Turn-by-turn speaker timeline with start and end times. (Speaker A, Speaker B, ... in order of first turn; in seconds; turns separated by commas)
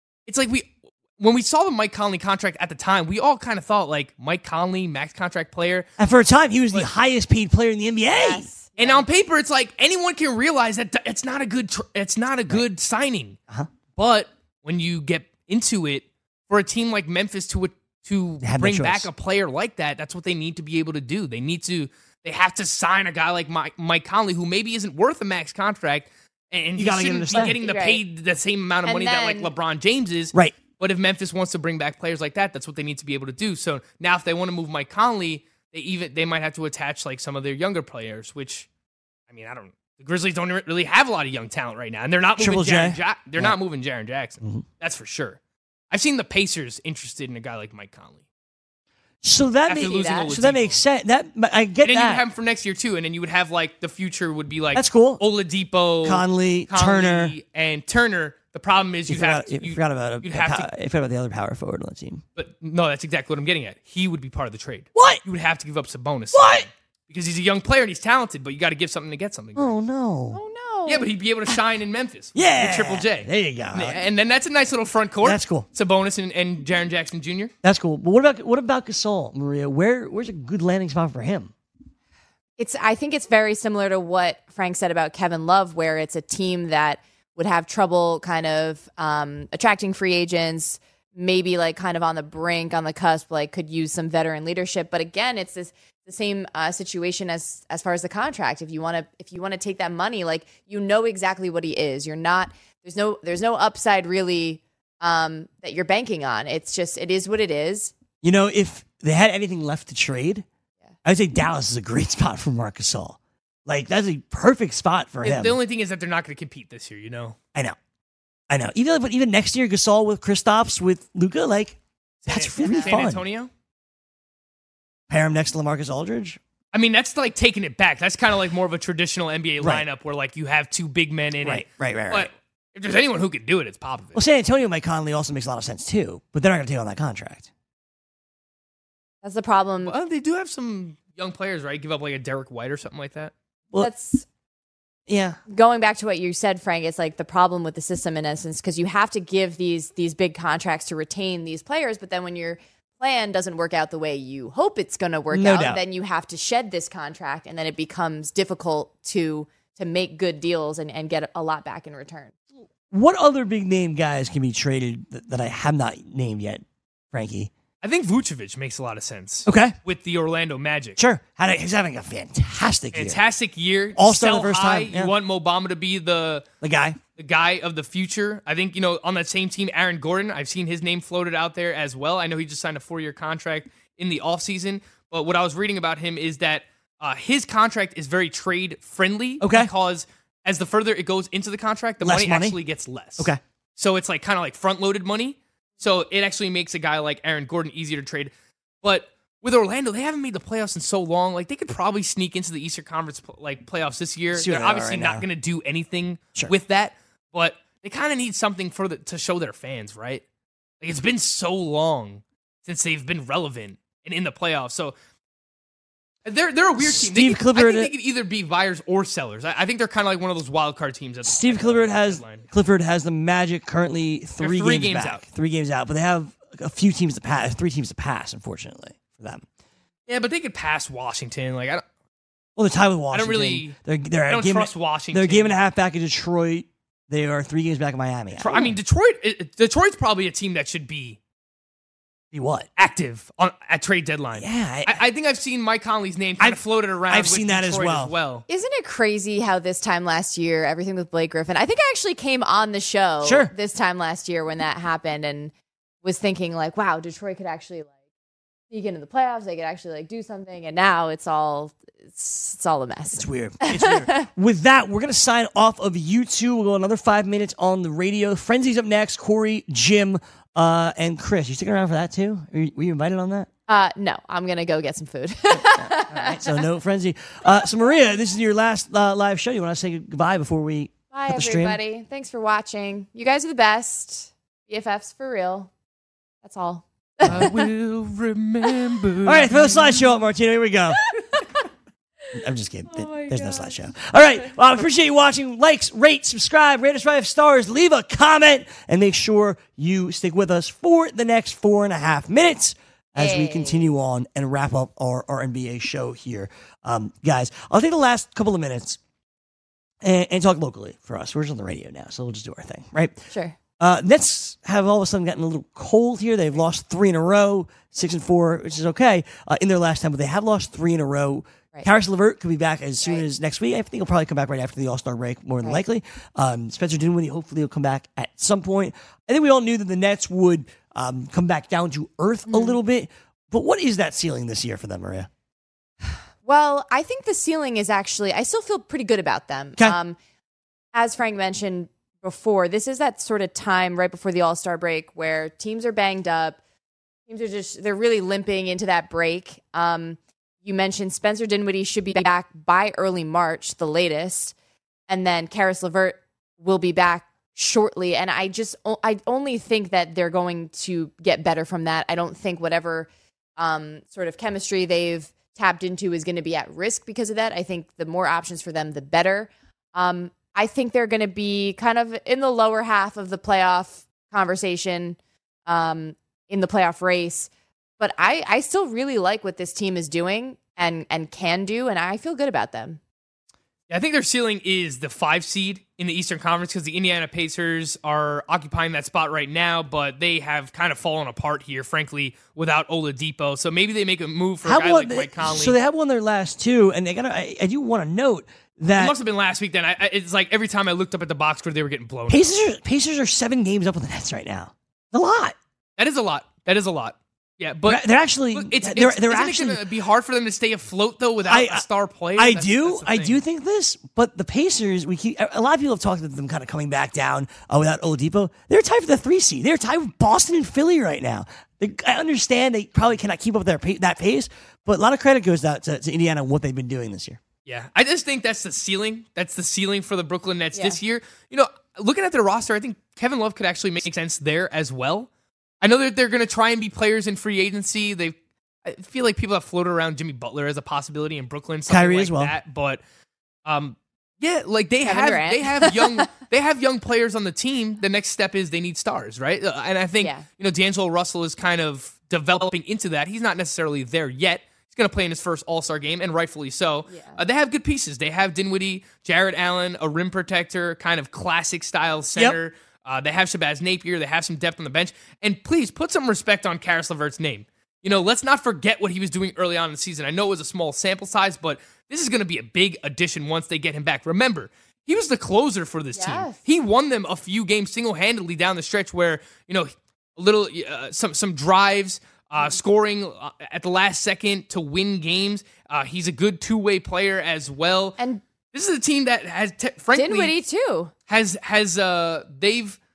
Speaker A: 0.3-5.9, Speaker B: 6.0-8.5, Speaker C: 8.1-9.1, Speaker A: 8.8-13.4, Speaker A: 13.9-38.7, Speaker B: 18.4-19.1, Speaker B: 26.8-27.6, Speaker C: 27.4-28.0, Speaker C: 28.9-29.5, Speaker B: 30.3-30.6, Speaker A: 39.3-45.4, Speaker B: 42.4-43.6, Speaker A: 45.9-48.2, Speaker B: 49.2-52.2, Speaker A: 49.7-50.8, Speaker A: 51.9-60.7, Speaker B: 54.7-55.2, Speaker B: 56.0-57.3, Speaker B: 59.1-62.2, Speaker A: 62.4-69.7, Speaker B: 65.0-65.2, Speaker B: 66.3-66.7, Speaker B: 69.6-70.4, Speaker C: 70.3-71.1, Speaker A: 70.9-77.5, Speaker B: 72.3-74.0, Speaker B: 75.2-75.7, Speaker B: 77.6-81.5, Speaker C: 82.6-107.9, Speaker B: 108.2-110.5, Speaker B: 111.0-115.6, Speaker A: 115.2-117.4, Speaker B: 118.5-123.2, Speaker A: 122.2-123.5, Speaker C: 122.6-122.9, Speaker B: 125.1-126.4, Speaker A: 126.7-134.2, Speaker B: 129.6-129.8, Speaker B: 131.4-132.3, Speaker B: 134.2-137.5, Speaker C: 139.2-139.9, Speaker A: 139.8-143.3, Speaker C: 143.8-144.3, Speaker B: 145.1-145.4, Speaker C: 145.5-162.3, Speaker B: 155.3-155.8, Speaker B: 162.9-167.5, Speaker A: 167.8-171.0, Speaker B: 169.5-169.8, Speaker B: 171.0-173.2, Speaker A: 172.9-176.5, Speaker B: 174.0-175.1, Speaker B: 176.6-177.0, Speaker A: 177.2-198.3, Speaker B: 189.4-189.7, Speaker B: 192.0-192.6, Speaker A: 198.8-210.2, Speaker B: 204.3-205.2, Speaker A: 210.8-214.9, Speaker A: 216.3-222.4, Speaker B: 216.8-217.9, Speaker B: 221.2-229.4, Speaker A: 224.4-225.2, Speaker A: 230.1-231.8, Speaker B: 232.6-238.8, Speaker A: 233.1-233.8, Speaker A: 234.3-235.6, Speaker A: 238.4-241.2, Speaker B: 242.3-242.7, Speaker A: 242.8-248.4, Speaker B: 244.4-245.0, Speaker B: 246.4-248.1, Speaker C: 248.5-255.5, Speaker B: 253.2-253.5, Speaker C: 256.0-257.9, Speaker C: 258.7-264.3, Speaker B: 263.1-273.5, Speaker C: 273.7-276.6, Speaker B: 275.5-281.8, Speaker C: 281.1-285.7, Speaker C: 286.4-287.5, Speaker A: 287.3-290.1, Speaker B: 289.2-291.1, Speaker B: 292.3-309.0, Speaker C: 292.9-293.8, Speaker C: 303.2-303.9, Speaker B: 310.0-313.3, Speaker B: 313.8-335.3, Speaker C: 332.5-332.8, Speaker C: 336.4-340.2, Speaker C: 340.9-346.6, Speaker C: 347.3-354.5, Speaker C: 355.1-383.0, Speaker A: 383.9-395.8, Speaker B: 394.6-399.2, Speaker A: 398.9-402.4, Speaker B: 402.3-405.6, Speaker A: 406.0-413.4, Speaker B: 407.9-409.8, Speaker B: 411.5-411.9, Speaker B: 412.4-427.4, Speaker A: 427.7-435.3, Speaker A: 435.8-443.0, Speaker B: 441.9-442.5, Speaker A: 443.6-488.2, Speaker C: 445.1-446.2, Speaker C: 450.2-450.4, Speaker C: 457.1-457.4, Speaker C: 476.1-476.6, Speaker A: 488.7-490.6, Speaker C: 490.1-491.1, Speaker A: 491.3-493.0